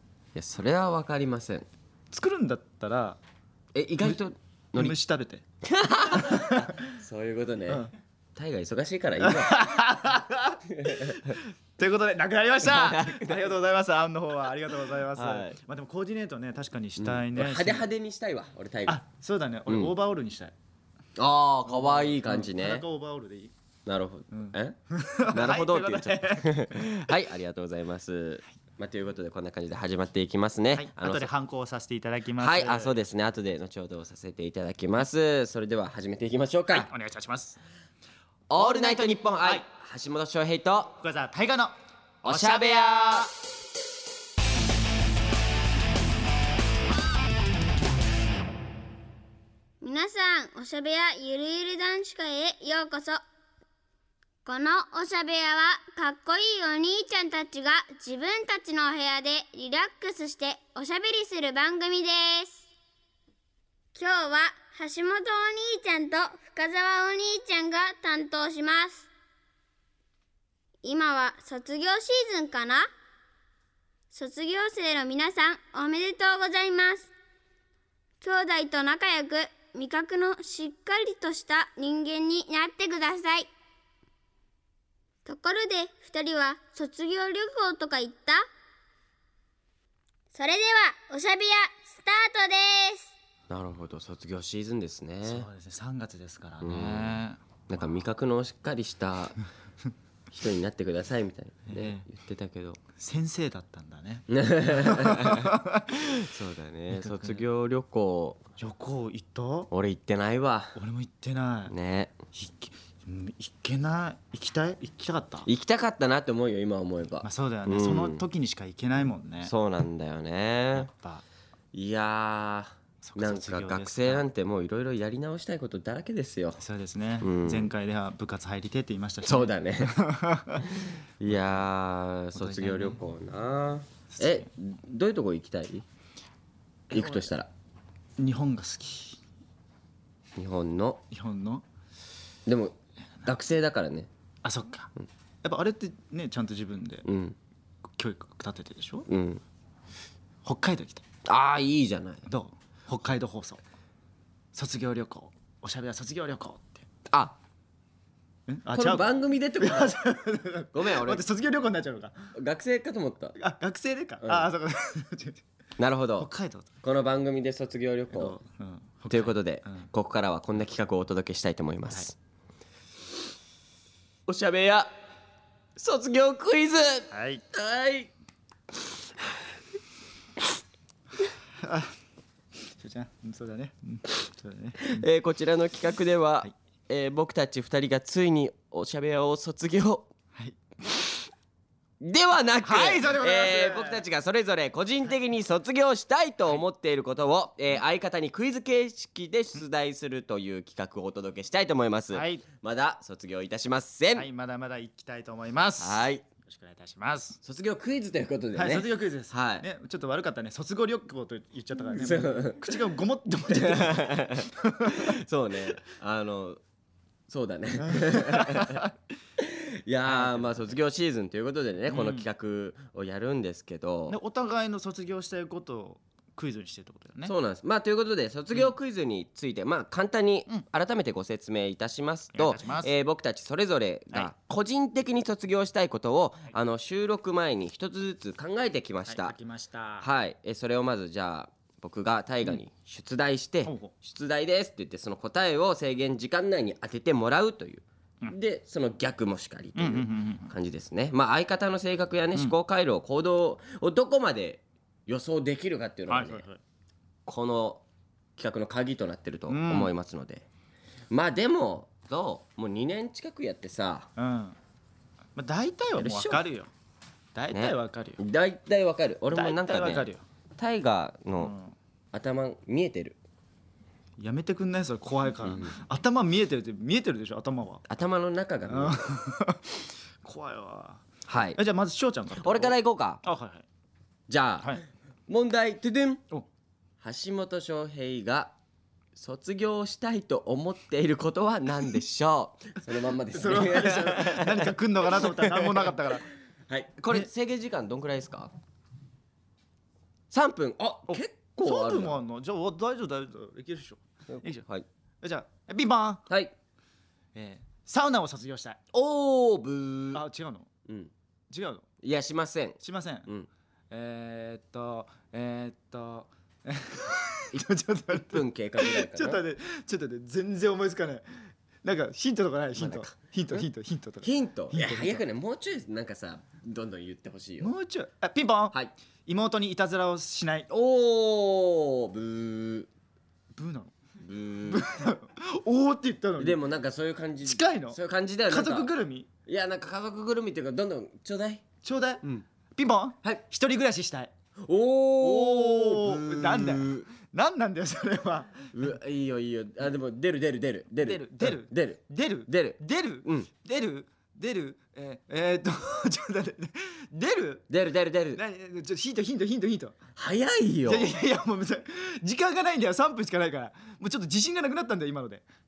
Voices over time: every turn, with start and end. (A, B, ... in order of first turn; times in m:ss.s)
0:00.4-0:01.7 A
0:02.1-0:03.2 B
0:03.7-0:05.0 A
0:04.8-0:05.4 B
0:05.6-0:09.7 A
0:06.1-0:06.9 B
0:09.2-0:17.9 B
0:10.7-0:11.4 A
0:12.6-0:13.5 A
0:15.1-0:15.6 A
0:17.0-0:19.0 A
0:18.9-0:20.5 B
0:19.7-0:19.9 A
0:21.2-0:22.8 A
0:21.7-0:23.5 B
0:23.9-0:24.8 A
0:24.3-0:27.0 B
0:25.3-0:31.3 A
0:30.7-0:33.0 B
0:32.4-0:36.9 A
0:36.7-0:37.6 B
0:38.5-0:41.0 A
0:41.0-0:43.3 B
0:42.2-0:43.3 A
0:49.8-0:53.2 C
0:54.4-1:02.7 C
1:04.0-1:09.1 C
1:10.8-1:12.9 C
1:14.1-1:17.1 C
1:18.2-1:23.5 C
1:25.2-1:28.5 C
1:30.3-1:33.1 C
1:33.5-1:35.5 A
1:35.2-1:38.0 B
1:36.6-1:37.2 A
1:37.7-1:39.4 A
1:40.3-1:42.8 A
1:41.7-1:42.1 B
1:43.0-1:46.0 B
1:44.3-1:45.6 A
1:46.2-1:48.4 A
1:46.9-1:47.4 B
1:48.6-1:49.7 B
1:49.7-1:50.8 A
1:50.8-1:51.7 B
1:51.7-1:52.2 A
1:52.3-1:55.5 B
1:55.4-1:58.2 A
1:57.2-1:59.5 B
1:59.4-2:00.9 A
2:00.7-2:01.2 B
2:01.7-2:06.6 A
2:03.0-2:04.3 B
2:06.6-2:10.7 B
2:07.2-2:07.7 A
2:09.2-2:10.0 A
2:10.6-2:15.8 A
2:11.3-2:11.6 B
2:12.3-2:13.0 B
2:14.1-2:14.5 B
2:16.9-2:17.3 B
2:16.9-2:17.5 A
2:18.2-2:19.2 B
2:20.4-2:21.0 A
2:21.1-2:21.6 B
2:22.5-2:24.1 A
2:24.4-2:24.9 B
2:25.4-2:27.1 B
2:27.0-2:27.4 A
2:28.0-2:29.1 B
2:29.1-2:29.4 A
2:30.4-2:31.0 B
2:31.2-2:32.2 A
2:32.3-2:33.6 B
2:34.5-2:36.9 B
2:37.1-2:37.4 A
2:38.5-2:42.3 B
2:38.7-2:40.0 A
2:40.7-2:41.2 A
2:42.3-2:43.4 A
2:43.4-2:45.4 B
2:44.2-2:44.5 A
2:45.8-2:46.3 A
2:46.2-2:46.7 B
2:46.8-2:48.4 A
2:48.1-2:49.9 B
2:49.1-2:52.2 A
2:54.3-2:54.9 A
2:55.8-2:58.1 A
2:57.1-2:57.4 B
3:01.6-3:02.0 B
3:02.7-3:05.0 B
3:04.8-3:10.1 A
3:10.4-3:11.1 B
3:12.0-3:24.3 A
3:12.6-3:14.0 B
3:22.1-3:22.4 B
3:24.2-3:27.4 B
3:25.8-3:26.2 A
3:27.4-3:29.7 A
3:28.6-3:35.2 B
3:31.9-3:32.9 A
3:33.5-3:36.6 A
3:37.3-3:38.8 A
3:38.0-3:38.9 B
3:39.4-3:44.2 A
3:40.1-3:40.7 B
3:41.9-3:42.3 B
3:44.1-3:47.3 B
3:47.2-3:59.4 A
3:52.3-3:52.9 B
3:59.1-4:00.1 B
4:00.0-4:16.4 A
4:03.6-4:03.9 B
4:09.8-4:10.5 B
4:16.1-4:16.6 B
4:17.3-4:17.8 A
4:18.4-4:20.5 A
4:19.5-4:19.9 B
4:21.1-4:24.1 A
4:24.2-4:24.6 B
4:25.4-4:26.7 B
4:26.0-4:26.4 A
4:27.4-4:28.2 B
4:27.5-4:30.1 A
4:29.3-4:30.2 B
4:30.6-4:31.5 A
4:31.4-4:31.8 B
4:32.1-4:33.2 A
4:34.2-4:37.8 B
4:35.4-4:35.7 A
4:37.9-4:39.1 A
4:38.7-4:41.0 B
4:41.3-4:41.6 A
4:41.6-4:43.7 B
4:42.4-4:43.2 A
4:44.3-4:46.2 A
4:47.0-4:48.6 A
4:49.2-4:56.1 A
4:53.3-4:56.3 B
4:56.7-4:58.5 A
5:00.3-5:02.2 A
5:01.1-5:04.6 B
5:04.3-5:04.9 A
5:05.2-5:06.3 B
5:06.3-5:06.6 A
5:07.4-5:08.8 B
5:08.9-5:10.2 A
5:10.1-5:10.7 B
5:10.8-5:11.1 A
5:11.5-5:11.8 B
5:12.0-5:13.5 A
5:12.8-5:13.3 B
5:13.9-5:21.3 B
5:18.1-5:19.4 A
5:21.8-5:25.2 B
5:22.8-5:23.6 A
5:24.2-5:27.7 A
5:27.6-5:28.8 B
5:29.3-5:30.7 B
5:30.7-5:32.9 A
5:33.6-5:34.0 B
5:34.2-5:34.9 A
5:34.7-5:36.6 B
5:36.4-5:38.9 A
5:37.4-5:39.3 B
5:39.5-5:41.6 A
5:41.8-5:42.2 B
5:42.8-5:44.3 B
5:44.6-5:47.1 A
5:45.2-5:48.7 B
5:48.7-5:53.5 A
5:51.0-5:57.7 B
5:57.7-5:58.4 A
5:58.3-6:00.0 B
6:00.2-6:01.2 A
6:00.9-6:05.4 B